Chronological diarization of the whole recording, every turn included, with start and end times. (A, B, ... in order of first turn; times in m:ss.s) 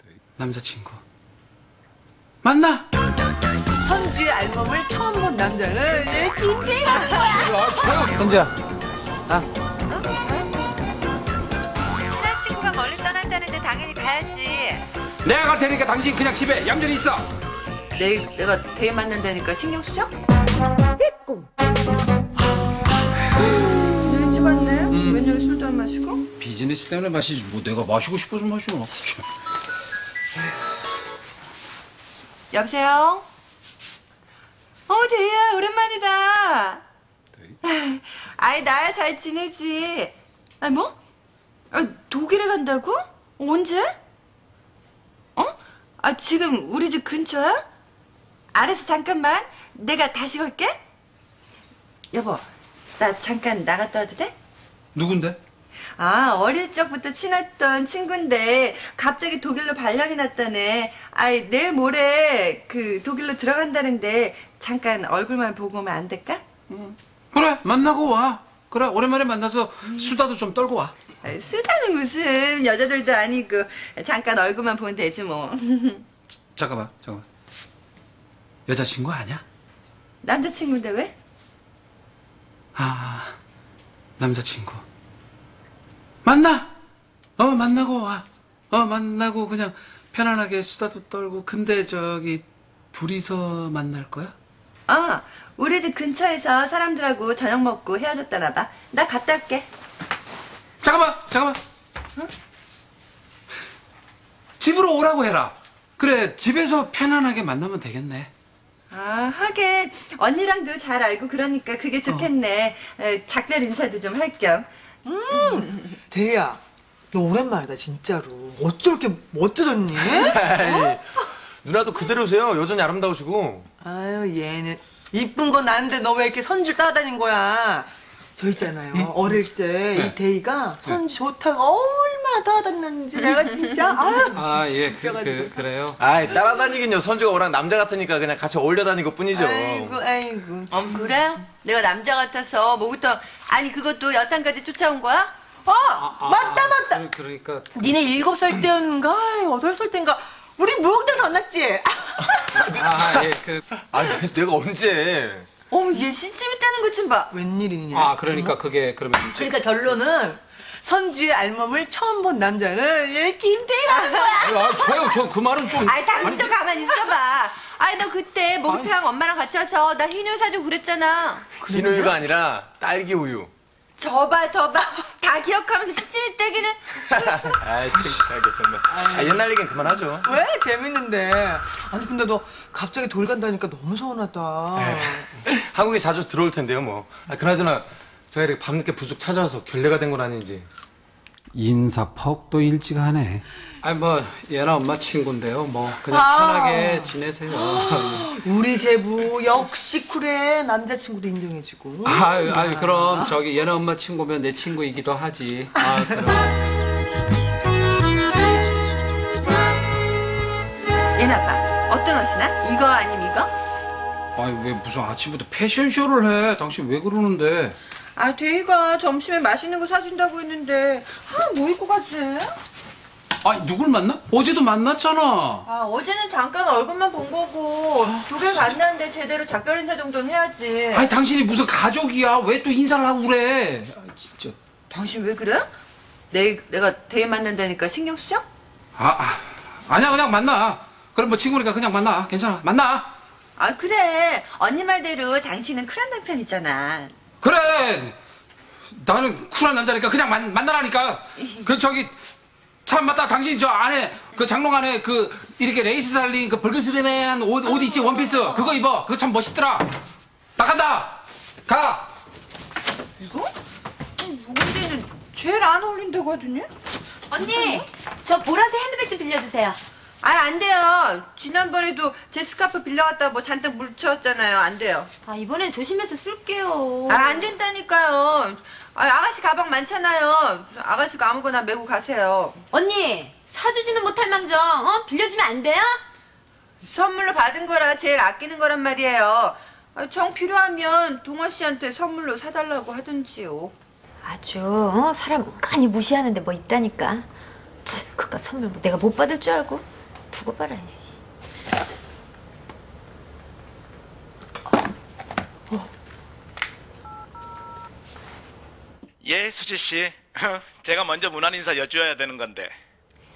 0:00.4-0:01.0 A
0:02.4-0:02.8 A
0:03.8-0:07.5 B
0:07.3-0:08.5 A
0:09.9-0:10.5 C
0:12.0-0:14.8 C
0:15.2-0:17.3 A
0:17.9-0:20.1 C
0:23.8-0:26.2 C
0:24.9-0:25.2 A
0:26.4-0:29.2 A
0:32.5-0:33.2 C
0:34.9-0:36.8 C
0:37.6-0:40.9 C
0:41.7-0:43.9 C
0:45.4-0:47.6 C
0:48.5-0:50.8 C
0:52.1-0:52.4 C
0:53.0-0:54.3 C
0:54.9-0:55.4 A
0:56.0-1:06.4 C
1:06.7-1:10.9 A
1:11.2-1:16.0 C
1:16.5-1:17.2 A
1:18.7-1:19.4 A
1:20.2-1:21.1 C
1:22.8-1:23.3 A
1:24.2-1:24.8 A
1:26.2-1:26.7 A
1:27.4-1:34.3 A
1:34.9-1:39.6 C
1:40.8-1:41.6 A
1:44.6-1:48.3 A
1:48.9-1:54.7 C
1:55.0-1:56.6 B
1:57.1-2:00.9 B
2:00.0-2:01.0 D
2:01.6-2:03.7 D
2:03.8-2:15.8 B
2:14.3-2:16.0 A
2:16.0-2:20.0 D
2:19.3-2:20.7 B
2:20.7-2:25.3 C
2:25.7-2:27.0 B
2:25.9-2:27.7 A
2:27.7-2:32.6 B
2:32.6-2:33.3 D
2:32.6-2:33.6 A
2:33.9-2:35.5 D
2:35.7-2:37.3 C
2:37.3-2:38.6 B
2:37.9-2:39.5 A
2:39.3-2:44.9 B
2:43.9-2:44.9 C
2:44.3-2:46.5 A
2:45.8-2:51.5 C
2:51.6-2:52.2 B
2:51.7-2:53.5 D
2:54.0-2:57.4 C
2:57.1-3:00.2 D
2:58.8-2:59.4 B
3:00.2-3:05.3 B
3:04.7-3:10.7 D
3:11.5-3:18.3 A
3:16.1-3:23.3 B
3:22.0-3:26.5 A
3:25.8-3:26.1 B
3:31.2-3:33.5 C
3:34.4-3:37.8 A
3:38.2-3:42.5 C
3:43.4-3:45.6 A
3:45.6-3:51.1 C
3:48.1-3:48.6 A
3:50.9-3:54.5 A
3:54.9-3:55.7 C
3:56.3-3:58.4 C
3:59.0-4:03.1 A
4:03.6-4:07.1 C
4:07.4-4:08.1 A
4:08.9-4:12.1 A
4:12.8-4:19.9 A
4:20.6-4:22.1 A
4:23.2-4:23.5 C
4:24.2-4:26.7 C
4:27.3-4:29.8 E
4:30.2-4:35.1 C
4:35.2-4:37.5 E
4:37.1-4:42.6 C
4:42.7-4:46.0 E
4:46.8-4:53.7 C
4:54.2-4:57.2 E
4:57.8-5:01.2 E
5:09.2-5:12.7 F